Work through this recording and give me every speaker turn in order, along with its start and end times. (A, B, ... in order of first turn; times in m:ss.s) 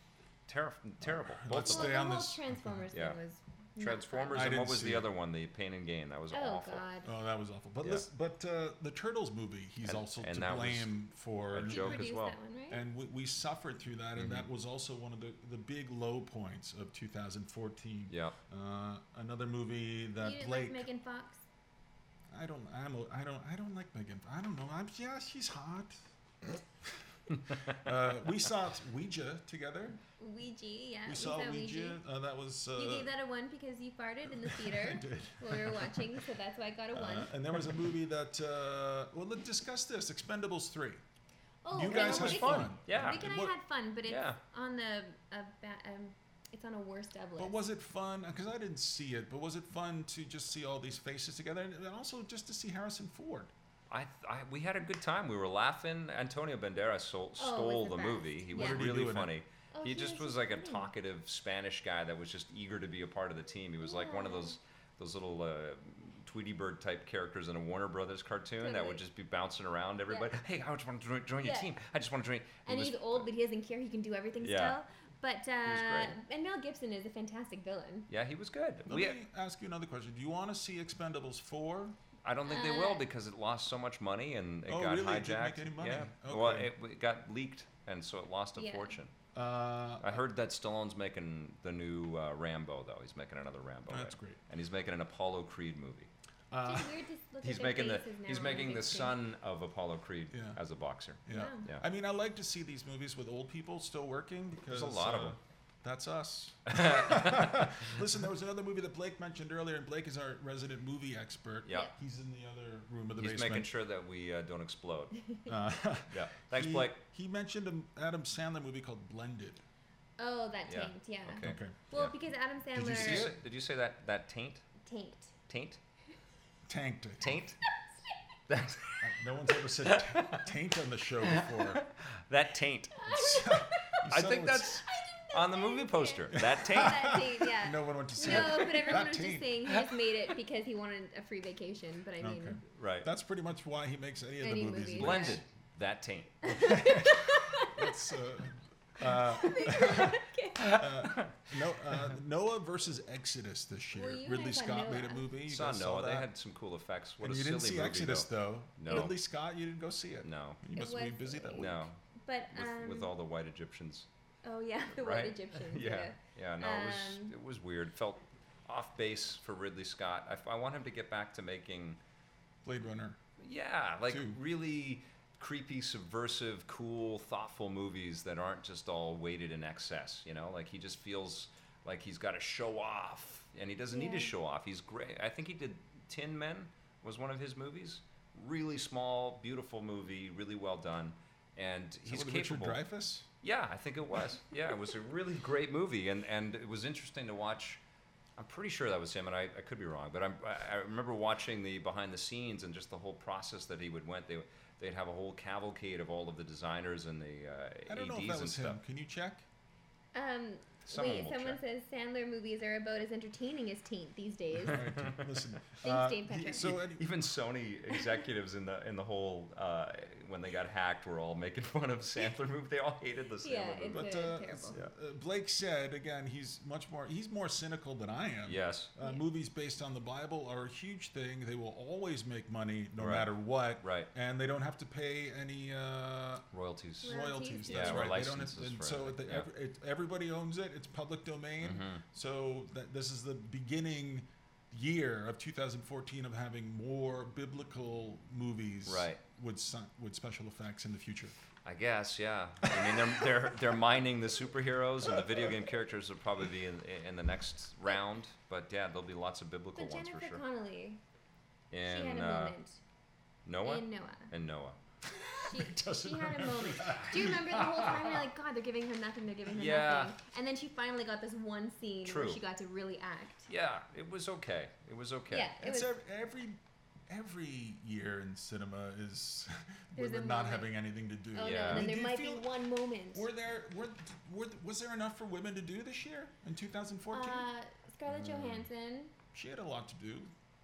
0:00.5-0:02.0 A
0:01.0-0:02.9 B
0:01.6-0:04.5 C
0:02.9-0:03.2 A
0:03.8-0:06.8 A
0:04.3-0:05.1 B
0:06.3-0:07.1 C
0:07.0-0:12.1 B
0:09.8-0:10.9 A
0:11.5-0:12.4 A
0:11.7-0:12.8 C
0:12.7-0:20.9 B
0:14.2-0:14.5 A
0:18.1-0:18.4 A
0:20.2-0:21.4 C
0:22.3-0:30.0 B
0:30.2-0:32.0 C
0:31.1-0:33.1 B
0:32.8-0:37.3 C
0:34.3-0:36.2 B
0:36.9-0:41.0 B
0:41.6-0:47.6 C
0:41.7-0:43.5 B
0:41.9-0:43.4 A
0:44.1-0:44.4 A
0:47.4-0:53.5 B
0:53.9-1:13.3 A
0:57.4-0:58.8 C
0:58.5-0:59.3 B
0:59.7-1:00.9 C
1:03.8-1:04.6 C
1:08.6-1:09.0 C
1:11.4-1:11.7 C
1:12.6-1:18.1 C
1:14.4-1:14.8 A
1:15.6-1:16.2 A
1:18.1-1:19.2 A
1:18.9-1:22.0 B
1:22.2-1:29.1 A
1:22.5-1:23.0 C
1:24.7-1:26.7 B
1:28.6-1:29.0 C
1:29.3-1:30.2 B
1:30.0-1:36.1 A
1:33.9-1:34.4 B
1:36.5-1:36.9 B
1:36.6-1:39.2 C
1:37.4-1:41.8 A
1:40.3-1:40.6 B
1:41.3-1:53.7 B
1:41.3-1:41.7 C
1:44.7-1:45.4 A
1:46.7-1:47.9 A
1:51.6-1:51.9 A
1:53.2-1:55.2 A
1:55.2-1:55.5 C
1:55.5-1:59.6 B
1:56.1-1:57.0 A
2:00.2-2:03.3 C
2:00.7-2:02.1 A
2:01.4-2:01.8 B
2:02.7-2:03.4 B
2:02.9-2:04.6 A
2:04.8-2:05.4 C
2:05.5-2:05.8 A
2:06.7-2:07.4 B
2:07.2-2:07.6 A
2:08.5-2:09.2 A
2:09.0-2:11.8 B
2:09.8-2:10.5 A
2:11.2-2:13.1 A
2:13.0-2:14.0 C
2:13.1-2:14.8 B
2:14.0-2:17.3 A
2:14.9-2:22.6 C
2:16.3-2:19.8 B
2:18.2-2:19.0 A
2:22.2-2:25.4 B
2:22.7-2:23.1 A
2:24.4-2:25.4 C
2:25.0-2:26.4 A
2:26.4-2:28.0 C
2:26.5-2:36.3 B
2:29.0-2:30.9 C
2:30.6-2:31.6 A
2:33.9-2:35.3 C
2:35.5-2:39.2 A
2:37.2-2:41.8 B
2:40.2-2:40.6 A
2:40.8-2:43.1 C
2:41.6-2:42.0 A
2:42.5-2:44.1 A
2:44.4-2:47.3 C
2:44.9-2:52.0 A
2:52.6-2:53.2 B
2:53.4-3:12.8 A
2:54.1-2:54.4 B
3:03.9-3:04.3 C
3:12.1-3:13.3 B
3:13.4-3:17.8 A
3:18.4-3:28.8 A
3:27.9-3:29.4 B
3:30.1-3:35.0 C
3:30.9-3:31.6 A
3:34.6-3:37.1 B
3:34.7-3:35.4 A
3:35.8-3:36.7 C
3:36.3-3:44.1 A
3:43.4-3:44.8 C
3:43.9-3:56.5 B
3:48.4-3:48.9 A
3:53.0-3:54.1 A
3:56.5-3:59.5 A
3:57.0-3:58.2 C
3:57.0-4:11.4 B
4:01.6-4:02.0 A
4:08.9-4:09.2 A
4:11.6-4:20.4 A
4:12.6-4:13.4 B
4:15.1-4:15.6 B
4:19.8-4:21.0 C
4:21.7-4:22.6 A
4:21.8-4:22.8 C
4:23.4-4:24.8 A
4:23.6-4:24.3 C
4:25.0-4:28.2 B
4:25.4-4:33.5 C
4:29.5-4:30.2 A
4:32.0-4:32.4 A
4:33.5-4:35.5 A
4:35.3-4:35.9 C
4:35.6-4:42.5 B
4:40.0-4:40.7 C
4:41.3-4:43.3 C
4:41.4-4:41.9 A
4:43.1-4:47.5 B
4:47.1-4:49.1 C
4:48.1-4:48.6 A
4:49.3-4:50.3 B